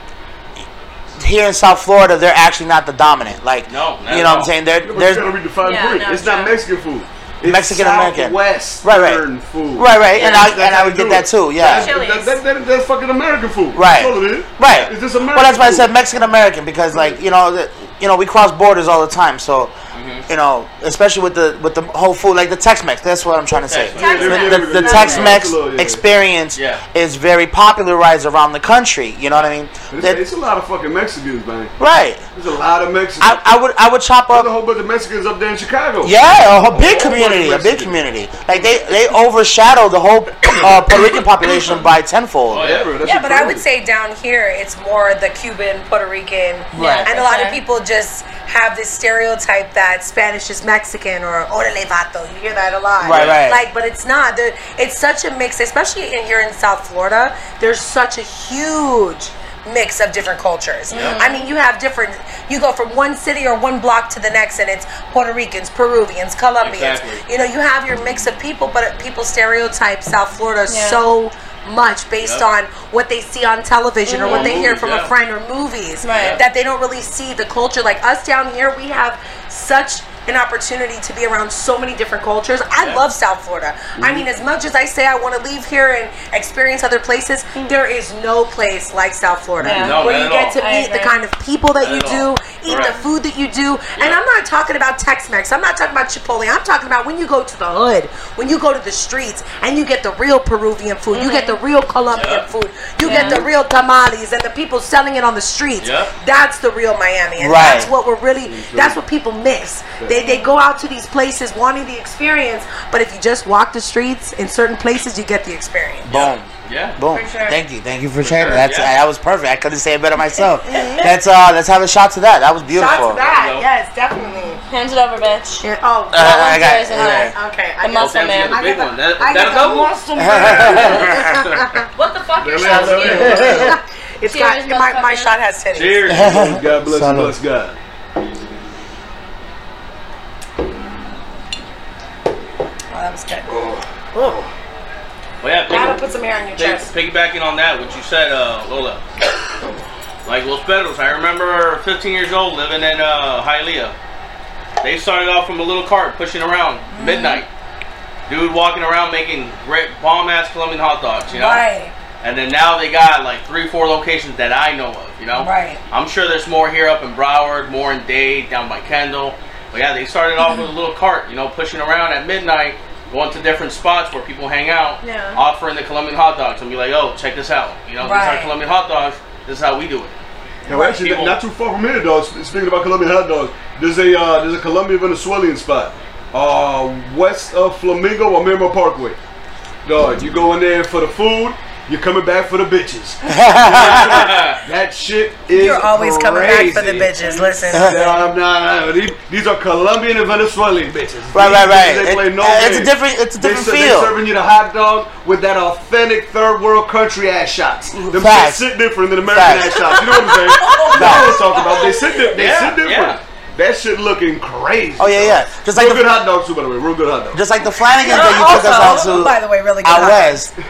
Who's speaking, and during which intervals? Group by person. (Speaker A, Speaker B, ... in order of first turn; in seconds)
Speaker A: 1.2-5.3, 7.5-9.2, 9.8-11.9, 13.7-19.7, 20.3-30.2, 31.8-32.2, 33.2-34.5, 36.0-42.6, 46.7-47.1, 53.0-53.6, 89.6-89.9, 107.4-107.9, 116.0-116.5, 117.0-123.2, 126.1-127.3, 130.2-131.4, 133.1-133.7, 136.1-137.3, 193.2-194.3, 197.7-198.0, 201.3-204.2, 208.1-208.6, 209.3-209.8, 210.9-211.4, 215.0-216.1, 217.3-220.5
Speaker B: 3.7-4.5, 10.2-10.6, 19.9-20.2, 23.7-24.3, 26.5-26.8, 42.5-42.9, 53.0-53.4, 60.9-61.2, 66.6-67.2, 72.2-72.5, 74.2-75.1, 76.1-76.4, 82.8-83.0, 89.7-90.6, 91.8-93.0, 102.1-102.5, 105.8-106.1, 116.1-117.0, 118.2-118.9, 122.8-123.7, 128.0-129.9, 135.7-136.5, 145.4-146.0, 146.6-149.0, 150.2-153.9, 154.8-157.5, 158.3-161.6, 162.2-180.1, 180.8-181.4, 193.7-194.6, 212.3-213.2
Speaker C: 4.8-15.9, 24.0-26.0, 29.9-31.7, 32.3-33.4, 34.3-36.1, 36.7-37.9, 42.6-43.6, 84.0-84.2, 108.4-109.0, 130.4-130.7, 132.4-133.7, 136.2-137.8, 143.5-144.5, 180.7-189.2, 189.8-217.4
Speaker D: 5.6-6.6, 11.7-12.4, 23.9-25.4, 46.8-47.6, 60.9-61.5, 70.7-71.0, 74.0-74.6, 76.0-76.4, 89.6-90.0, 90.6-91.2, 101.1-101.6, 103.0-103.5, 110.1-110.5, 117.1-117.6, 120.7-121.1, 124.7-125.7, 126.2-128.6, 131.9-135.3, 175.0-175.4, 209.8-212.3, 218.1-218.9
Speaker E: 43.0-116.1, 120.7-121.1, 122.7-124.6, 125.6-131.9, 132.6-136.2, 142.9-143.5, 145.7-146.9, 156.9-157.4, 161.3-161.9, 165.3-165.8, 178.0-178.5, 180.7-180.9, 195.5-198.3, 210.7-211.7, 218.0-220.4